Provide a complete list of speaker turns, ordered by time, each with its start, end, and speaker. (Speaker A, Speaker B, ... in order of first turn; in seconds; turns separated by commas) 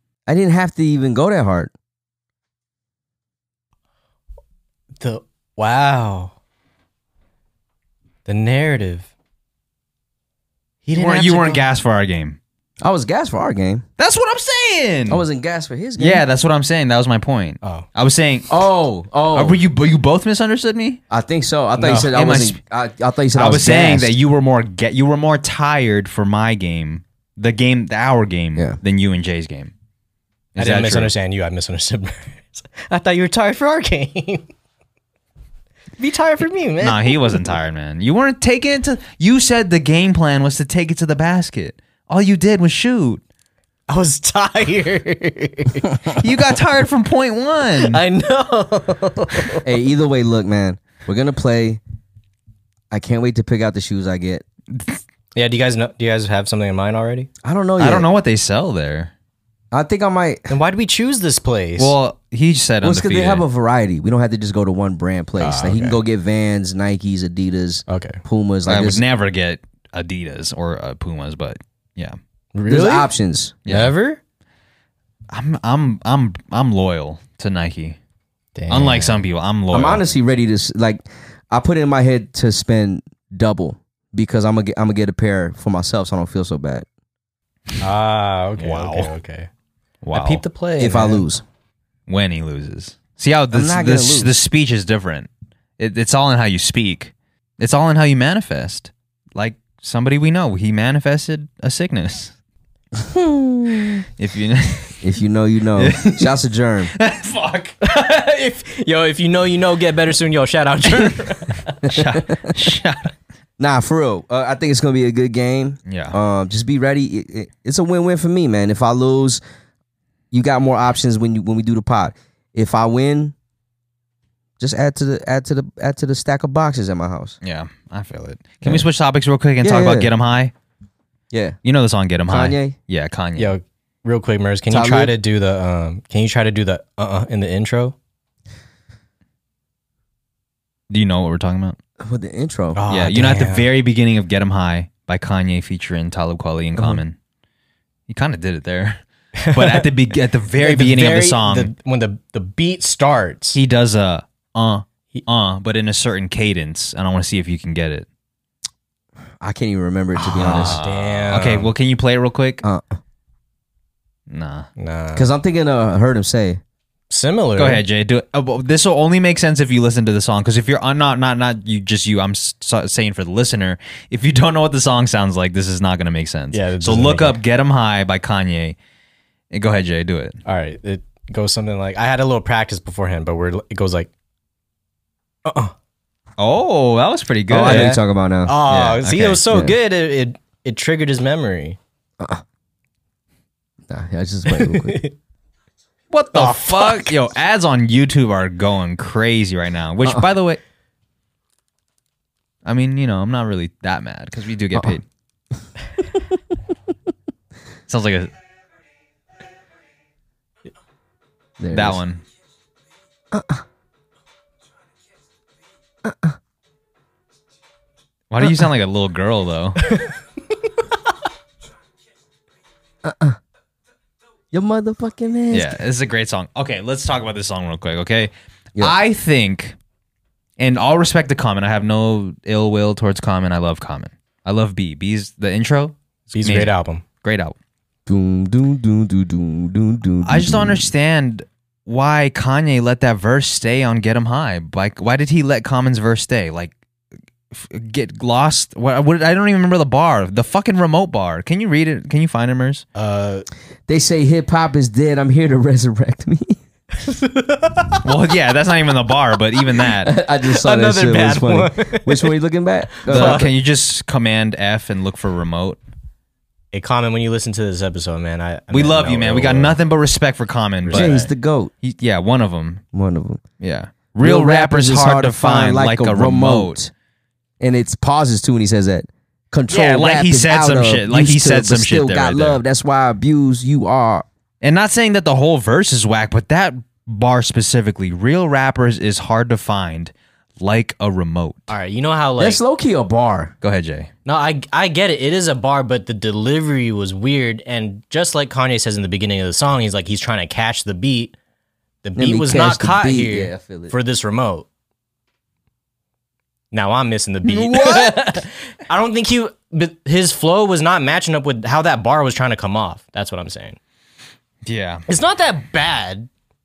Speaker A: 0.3-1.7, Speaker B: 5.0-6.3, Speaker B: 8.3-9.1, Speaker B: 10.8-11.6, Speaker C: 10.9-12.4, Speaker A: 12.8-13.8, Speaker C: 14.0-15.2, Speaker A: 15.1-16.2, Speaker C: 16.0-18.5, Speaker A: 18.5-19.6, Speaker C: 19.3-21.0, Speaker A: 21.1-24.1, Speaker B: 21.8-22.1, Speaker C: 22.1-22.6, Speaker C: 23.4-29.7, Speaker C: 30.6-31.1, Speaker B: 30.6-34.5, Speaker B: 36.0-37.5, Speaker C: 36.8-43.2, Speaker B: 43.9-46.0, Speaker C: 46.1-48.0, Speaker B: 47.8-49.6, Speaker A: 49.6-51.8, Speaker A: 52.9-54.5, Speaker C: 54.7-55.0, Speaker B: 55.4-57.3, Speaker A: 57.4-58.1, Speaker C: 57.8-59.1, Speaker A: 59.7-60.5, Speaker B: 60.5-61.9, Speaker C: 61.8-63.5, Speaker A: 62.8-69.0, Speaker B: 65.4-66.0, Speaker B: 67.9-68.2, Speaker C: 68.7-72.2, Speaker B: 72.5-73.1, Speaker A: 72.7-73.6, Speaker C: 73.7-73.9, Speaker B: 73.7-74.2, Speaker C: 75.3-78.0, Speaker B: 78.6-79.2, Speaker C: 78.7-80.0, Speaker A: 79.7-86.9, Speaker B: 87.8-89.5, Speaker C: 88.6-89.1, Speaker C: 90.0-90.4, Speaker B: 90.1-91.3, Speaker A: 90.8-91.4, Speaker C: 92.1-102.3, Speaker A: 93.5-94.3, Speaker A: 103.0-104.0, Speaker C: 104.2-105.0, Speaker A: 105.0-106.9, Speaker C: 105.8-106.3, Speaker C: 106.9-107.8, Speaker B: 107.8-111.9, Speaker C: 111.8-113.1, Speaker A: 113.6-119.4, Speaker C: 115.9-116.2, Speaker A: 120.3-123.3, Speaker A: 124.6-127.4, Speaker C: 127.4-130.5, Speaker A: 129.6-130.1, Speaker A: 131.3-131.6, Speaker C: 131.7-133.5, Speaker A: 132.3-132.8, Speaker B: 133.4-137.9, Speaker A: 134.7-135.1, Speaker C: 140.9-141.8, Speaker A: 142.0-142.8, Speaker B: 142.8-143.7, Speaker C: 142.9-147.2, Speaker A: 146.8-147.0, Speaker C: 148.1-151.7, Speaker B: 149.4-149.8, Speaker B: 150.6-153.6, Speaker C: 153.5-158.1, Speaker A: 159.4-160.8, Speaker B: 160.2-161.7, Speaker C: 160.4-162.6, Speaker A: 162.6-163.0, Speaker C: 164.3-164.7, Speaker B: 164.8-165.3, Speaker A: 165.2-166.6, Speaker B: 167.1-167.8, Speaker C: 167.6-178.8, Speaker B: 176.5-177.4, Speaker C: 179.5-180.4, Speaker B: 180.4-184.1, Speaker B: 185.4-185.7, Speaker C: 186.4-188.0, Speaker A: 187.5-188.6, Speaker B: 187.7-191.8, Speaker C: 188.7-189.4, Speaker A: 189.5-189.8, Speaker A: 193.9-195.0, Speaker B: 194.5-195.1, Speaker C: 196.1-200.6, Speaker B: 196.3-197.1, Speaker C: 202.7-205.0, Speaker C: 207.9-208.3, Speaker A: 211.6-212.0, Speaker C: 211.7-212.2, Speaker A: 213.3-213.6, Speaker A: 216.0-216.4, Speaker C: 218.3-219.9, Speaker A: 223.0-223.4, Speaker A: 224.5-225.8, Speaker C: 225.5-229.8, Speaker C: 230.6-237.6, Speaker B: 236.3-237.0, Speaker A: 238.1-240.9, Speaker C: 240.2-246.7, Speaker C: 247.5-252.8, Speaker B: 253.0-253.5, Speaker A: 253.9-256.6, Speaker B: 257.0-258.1, Speaker C: 258.0-260.1, Speaker A: 260.0-263.5, Speaker B: 260.4-262.3, Speaker B: 263.0-263.5, Speaker C: 263.1-265.8, Speaker B: 266.7-269.8, Speaker C: 268.7-271.3, Speaker B: 270.8-271.3, Speaker A: 270.9-271.7, Speaker C: 271.8-272.8, Speaker A: 272.9-273.4, Speaker C: 273.6-276.8, Speaker A: 274.2-276.9, Speaker A: 277.6-284.2, Speaker C: 279.7-282.6, Speaker C: 284.6-291.7, Speaker B: 291.7-292.6, Speaker A: 292.4-293.5, Speaker C: 293.6-294.1, Speaker B: 294.3-301.4, Speaker B: 302.0-304.7, Speaker A: 302.2-303.9, Speaker B: 306.7-313.8, Speaker C: 314.6-315.0, Speaker B: 315.1-316.3